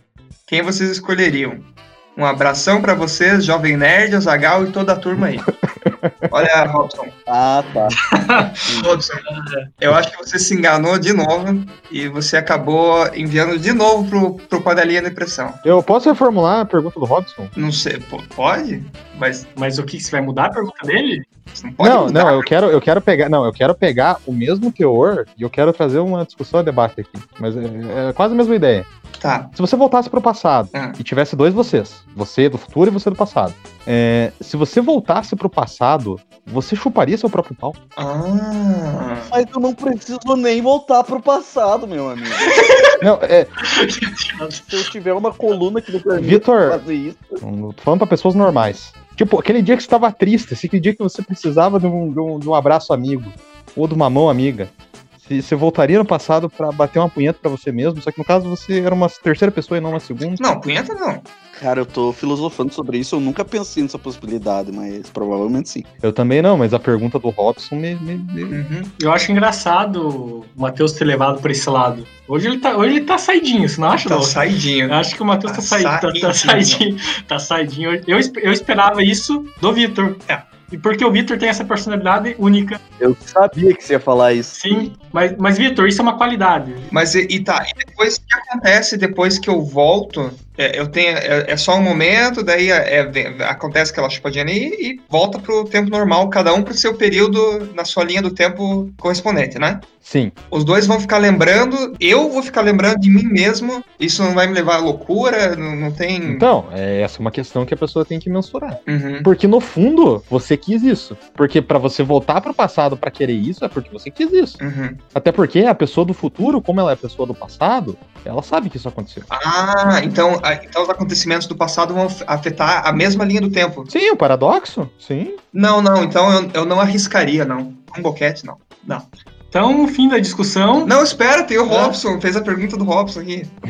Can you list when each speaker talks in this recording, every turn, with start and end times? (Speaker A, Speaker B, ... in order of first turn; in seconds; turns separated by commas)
Speaker A: 0.5-5.5, Speaker B: 5.7-6.3, Speaker A: 6.3-7.1, Speaker C: 7.3-8.0, Speaker D: 8.1-8.5, Speaker C: 8.7-8.9, Speaker A: 8.7-9.2, Speaker D: 9.2-9.7, Speaker A: 9.8-15.6, Speaker B: 15.6-17.5, Speaker A: 17.5-19.5, Speaker D: 19.6-21.2, Speaker A: 21.5-22.5, Speaker B: 21.8-28.9, Speaker A: 29.2-29.5, Speaker B: 29.5-37.8, Speaker A: 30.7-31.0, Speaker A: 38.0-39.3, Speaker C: 39.3-42.6, Speaker D: 42.5-42.9, Speaker B: 43.0-43.5, Speaker D: 43.6-44.8, Speaker C: 44.7-47.4, Speaker B: 46.2-46.8, Speaker B: 47.4-60.4, Speaker A: 60.4-61.2, Speaker C: 61.5-65.9, Speaker B: 66.0-68.5, Speaker A: 68.5-68.9, Speaker D: 69.0-82.8, Speaker A: 74.0-76.8, Speaker C: 83.0-84.9, Speaker D: 84.5-86.9, Speaker A: 86.9-99.8, Speaker B: 100.0-100.3, Speaker A: 100.5-106.5, Speaker B: 106.2-114.6, Speaker A: 108.9-109.3, Speaker A: 114.6-115.0, Speaker B: 115.1-119.3, Speaker A: 119.3-123.9, Speaker B: 123.9-125.4, Speaker A: 125.5-129.1, Speaker D: 129.5-130.9, Speaker A: 130.8-133.5, Speaker D: 131.7-132.0